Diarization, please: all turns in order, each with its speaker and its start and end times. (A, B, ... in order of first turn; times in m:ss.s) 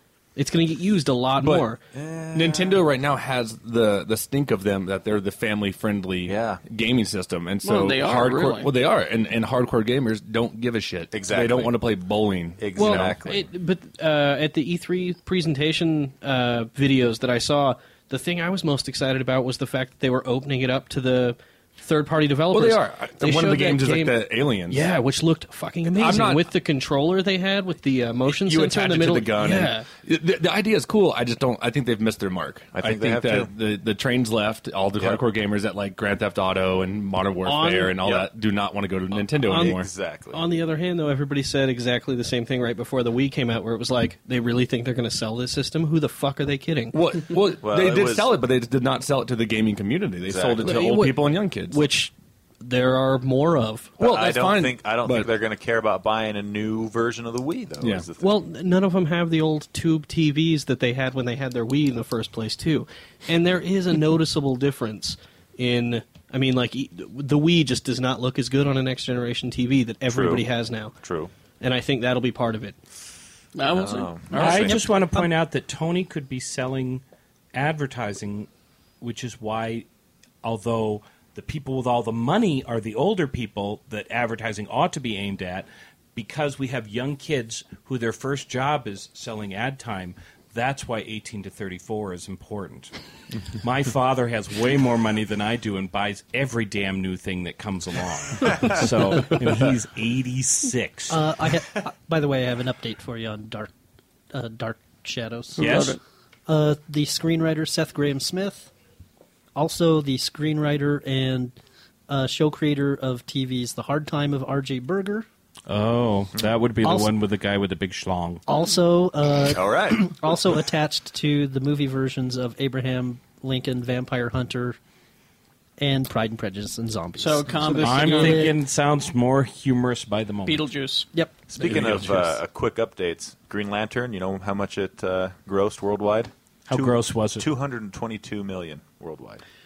0:00.4-0:01.8 A
0:01.4-0:01.7 B
0:01.9-0:02.9 C
0:02.3-0:13.2 B
0:06.2-0:06.6 C
0:07.6-0:08.7 D
0:11.1-0:11.9 C
0:12.6-0:13.4 C
0:12.8-0:29.9 A
0:22.5-0:24.9 B
0:25.9-0:26.5 B
0:28.3-0:39.9 B
0:32.7-0:33.5 C
0:37.4-0:38.0 A
0:39.2-0:40.4 C
0:39.3-0:47.0 A
0:46.9-0:51.8 B
0:47.6-0:48.3 C
0:50.3-0:50.9 C
0:50.6-0:54.0 A
0:54.0-0:55.3 B
0:54.0-0:58.4 C
0:57.8-0:58.0 B
0:58.2-1:10.9 A
1:10.1-1:10.5 C
1:11.0-1:11.3 C
1:11.6-1:12.8 A
1:13.6-1:14.9 D
1:13.7-1:14.8 C
1:14.3-1:17.0 E
1:17.5-1:18.5 E
1:19.0-1:19.9 E
1:20.4-1:32.9 E
1:33.6-1:41.2 E
1:41.1-1:43.7 F
1:44.3-1:45.9 F
1:45.6-1:46.0 D
1:45.6-1:46.0 E
1:46.5-1:48.7 F
1:49.6-1:51.5 F
1:52.1-1:55.3 F
1:55.7-1:58.4 E
1:56.8-1:57.1 F
1:58.5-2:04.8 F
1:59.4-2:00.1 C
2:05.8-2:08.6 F
2:07.2-2:08.4 D
2:07.6-2:08.5 A
2:07.8-2:10.7 E
2:10.4-2:11.1 D
2:11.5-2:19.4 C
2:11.6-2:12.3 B
2:16.7-2:17.5 E